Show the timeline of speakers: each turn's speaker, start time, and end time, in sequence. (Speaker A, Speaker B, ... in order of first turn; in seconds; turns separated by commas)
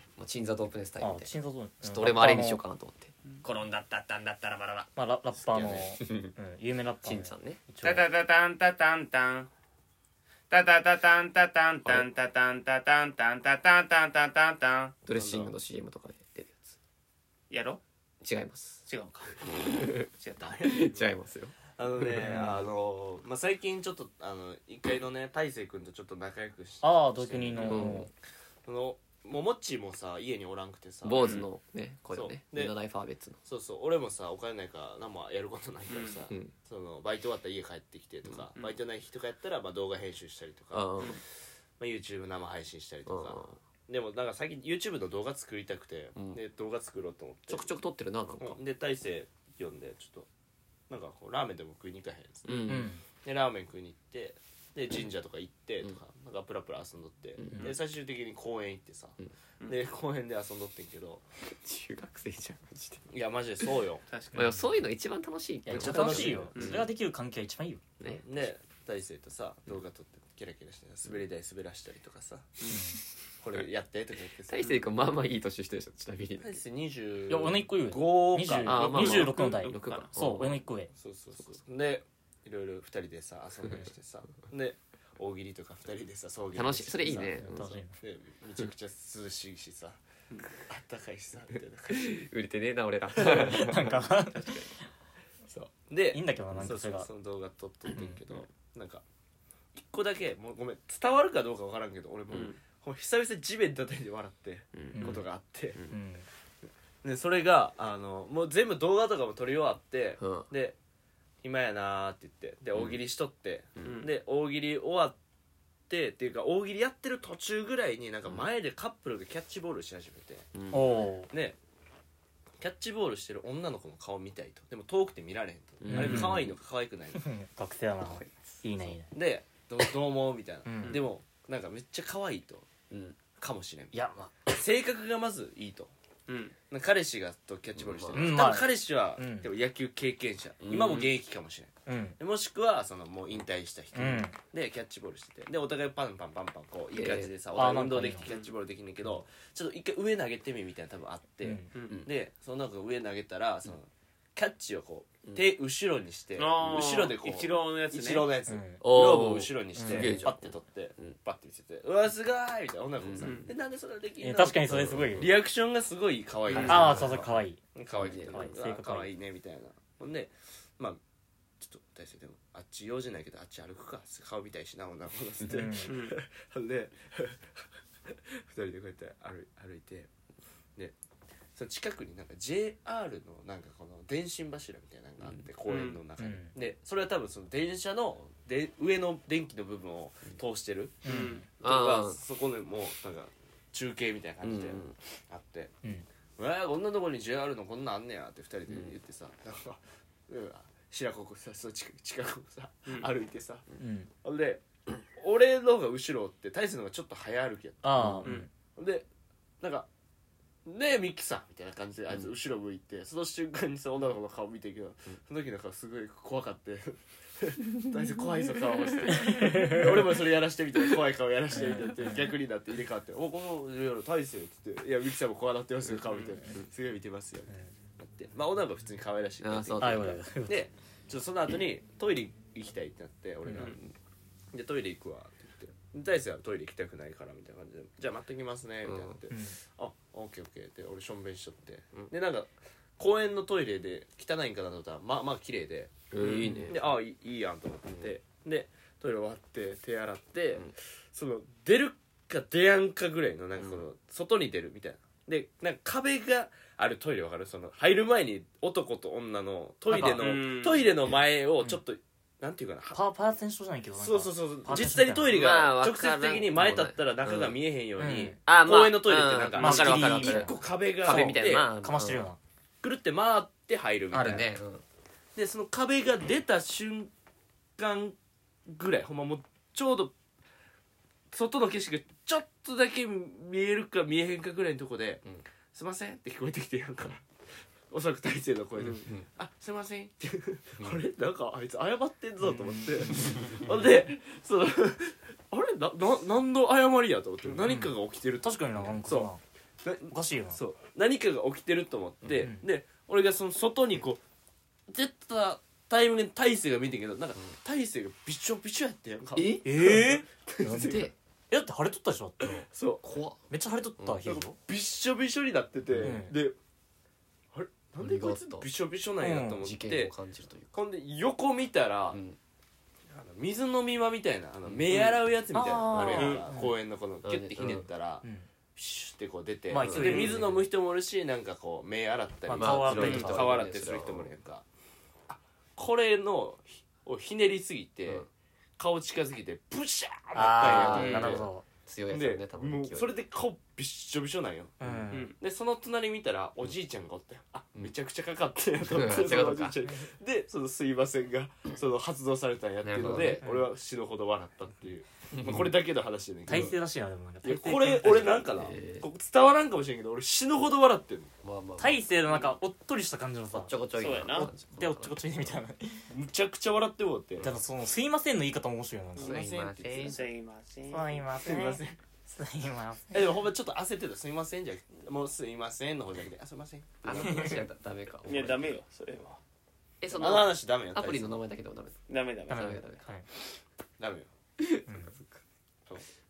Speaker A: 0.2-1.3, Speaker B: 1.0-2.6, Speaker A: 1.8-4.9, Speaker B: 5.0-8.1, Speaker C: 5.4-5.9, Speaker A: 6.0-6.3, Speaker A: 7.0-7.6, Speaker D: 7.8-9.5, Speaker D: 10.5-14.9, Speaker A: 15.0-16.8, Speaker C: 15.1-15.5, Speaker D: 17.5-17.8, Speaker A: 18.2-18.8, Speaker D: 18.9-19.4, Speaker A: 19.4-20.1, Speaker D: 20.1-20.7, Speaker C: 20.4-21.1, Speaker A: 20.6-22.5, Speaker C: 21.7-28.0, Speaker B: 22.2-22.6, Speaker B: 26.8-28.1, Speaker A: 27.6-28.1, Speaker C: 28.6-31.4, Speaker A: 31.0-33.4, Speaker D: 31.1-31.5, Speaker C: 32.1-32.7, Speaker C: 33.5-41.2, Speaker D: 35.9-36.3, Speaker A: 40.7-41.2, Speaker C: 41.8-47.7, Speaker A: 43.0-43.6, Speaker A: 47.5-48.6, Speaker C: 48.4-50.3, Speaker C: 50.9-61.2, Speaker A: 52.4-52.9, Speaker B: 52.7-53.0, Speaker A: 61.5-63.7, Speaker C: 63.1-64.0, Speaker D: 64.1-64.5, Speaker B: 64.3-64.6, Speaker A: 64.3-66.9, Speaker B: 65.7-67.8, Speaker C: 65.7-66.5, Speaker D: 66.5-66.8, Speaker C: 68.0-72.7, Speaker B: 72.7-73.0, Speaker C: 73.4-74.7, Speaker A: 74.5-76.6, Speaker D: 74.6-74.8, Speaker C: 76.4-79.4, Speaker B: 77.3-80.9, Speaker A: 78.6-80.6, Speaker D: 79.5-80.1, Speaker C: 80.9-90.0, Speaker A: 86.5-87.8, Speaker B: 87.1-88.0, Speaker C: 90.5-92.2, Speaker A: 91.9-94.0, Speaker C: 93.2-94.0, Speaker B: 93.3-94.6, Speaker D: 94.3-94.7, Speaker C: 95.5-99.0, Speaker B: 96.1-97.1, Speaker B: 97.9-98.2, Speaker C: 99.7-105.8, Speaker D: 102.3-102.6, Speaker A: 104.7-105.2, Speaker B: 104.9-105.2, Speaker B: 105.9-106.2, Speaker C: 107.0-110.8, Speaker A: 110.2-110.5, Speaker C: 111.4-115.2, Speaker D: 113.8-114.1, Speaker C: 115.9-120.5, Speaker A: 120.5-121.0, Speaker B: 120.7-121.3, Speaker C: 121.3-121.6, Speaker C: 122.6-127.2, Speaker A: 125.8-126.5, Speaker B: 125.9-126.5, Speaker B: 127.1-129.1, Speaker A: 128.0-128.9, Speaker C: 129.1-132.7, Speaker B: 130.6-131.0, Speaker A: 132.9-133.2, Speaker C: 133.3-135.9, Speaker B: 133.9-134.3, Speaker D: 136.3-136.5, Speaker C: 136.7-171.0, Speaker A: 137.7-138.4, Speaker B: 138.1-139.5, Speaker A: 140.6-141.1, Speaker D: 140.8-141.1, Speaker B: 141.9-142.2, Speaker B: 143.9-144.3, Speaker A: 146.9-147.3, Speaker B: 147.5-148.3, Speaker D: 148.2-148.5, Speaker B: 151.4-151.7, Speaker D: 151.7-152.0, Speaker D: 156.4-158.3, Speaker B: 158.5-158.8, Speaker A: 158.8-161.2, Speaker B: 159.7-160.2, Speaker A: 163.0-163.6, Speaker D: 163.2-163.5, Speaker B: 164.2-165.3, Speaker A: 164.7-165.3, Speaker D: 166.5-166.9, Speaker A: 166.5-167.3, Speaker B: 166.6-167.6, Speaker A: 167.9-168.5, Speaker B: 168.3-169.1, Speaker C: 171.6-180.1, Speaker B: 175.5-175.9, Speaker D: 175.9-176.2, Speaker C: 181.5-195.7, Speaker D: 185.7-186.0, Speaker B: 186.2-186.5, Speaker B: 191.0-191.4, Speaker D: 191.0-191.4, Speaker A: 191.6-192.2, Speaker A: 194.4-194.9, Speaker C: 196.4-203.6, Speaker A: 198.7-198.9, Speaker B: 203.8-204.1, Speaker C: 204.2-209.1, Speaker B: 207.8-208.5, Speaker A: 207.9-208.3, Speaker C: 209.6-209.9, Speaker C: 210.7-233.8, Speaker B: 219.2-219.8, Speaker B: 221.5-222.2, Speaker D: 226.1-226.4, Speaker A: 229.4-230.2, Speaker B: 229.8-230.7, Speaker B: 233.4-233.7, Speaker A: 233.6-233.9, Speaker C: 234.5-263.0, Speaker A: 238.8-239.2, Speaker B: 239.3-239.6, Speaker A: 246.1-246.9, Speaker D: 246.2-246.6, Speaker A: 247.9-248.1, Speaker A: 253.6-253.8, Speaker B: 259.9-260.2, Speaker D: 260.2-260.9, Speaker B: 262.9-265.4, Speaker C: 264.0-271.7, Speaker A: 265.3-267.6, Speaker B: 268.0-268.4, Speaker A: 268.4-272.2, Speaker B: 269.5-272.4, Speaker C: 272.8-274.5, Speaker A: 274.1-274.8, Speaker C: 275.3-277.1, Speaker C: 277.8-280.1, Speaker C: 281.3-287.3, Speaker C: 287.9-299.3, Speaker A: 288.9-289.2, Speaker B: 292.4-292.8, Speaker B: 297.6-299.4, Speaker C: 299.8-304.2, Speaker B: 300.1-300.6, Speaker C: 304.9-311.1, Speaker A: 309.3-309.7, Speaker B: 309.6-311.0, Speaker A: 310.6-311.1, Speaker B: 311.5-312.6, Speaker C: 312.6-313.0, Speaker A: 313.0-313.4, Speaker B: 313.5-314.6, Speaker A: 314.0-314.2, Speaker C: 314.2-316.6, Speaker B: 316.0-316.4, Speaker C: 317.5-320.1, Speaker A: 318.0-318.7, Speaker B: 319.2-319.6, Speaker A: 319.4-320.7, Speaker C: 320.7-322.2, Speaker A: 322.1-322.4, Speaker C: 323.1-334.6, Speaker A: 324.6-325.1, Speaker B: 325.5-326.7, Speaker A: 325.7-326.4, Speaker D: 326.0-326.5, Speaker A: 327.2-327.9, Speaker B: 329.7-330.6, Speaker A: 329.8-330.3, Speaker D: 329.9-330.4, Speaker B: 332.5-333.5, Speaker A: 332.5-334.3, Speaker D: 333.0-333.3, Speaker C: 335.3-341.5, Speaker B: 340.3-341.6, Speaker A: 340.5-343.1, Speaker D: 341.0-341.3, Speaker C: 342.1-344.8, Speaker A: 344.8-345.1, Speaker B: 344.8-345.3, Speaker D: 345.1-345.4, Speaker C: 345.4-356.8, Speaker A: 348.8-349.8, Speaker A: 352.8-353.4, Speaker A: 355.4-355.7, Speaker B: 356.5-358.5, Speaker A: 356.5-356.8, Speaker C: 357.4-361.3, Speaker A: 358.0-359.1, Speaker A: 361.4-362.0, Speaker B: 361.8-366.1, Speaker A: 363.5-365.6, Speaker D: 363.9-364.5, Speaker C: 366.1-367.5, Speaker B: 367.4-369.4, Speaker C: 369.1-370.2, Speaker A: 369.1-370.2, Speaker D: 369.8-371.2, Speaker B: 370.9-373.3, Speaker C: 371.3-372.0, Speaker C: 373.1-377.6, Speaker A: 377.0-378.8, Speaker B: 377.1-377.6, Speaker D: 378.2-379.4, Speaker A: 380.0-383.0, Speaker C: 380.1-381.3, Speaker D: 382.1-382.9, Speaker B: 382.5-383.3, Speaker C: 384.0-384.3, Speaker A: 384.6-385.4, Speaker B: 384.9-385.1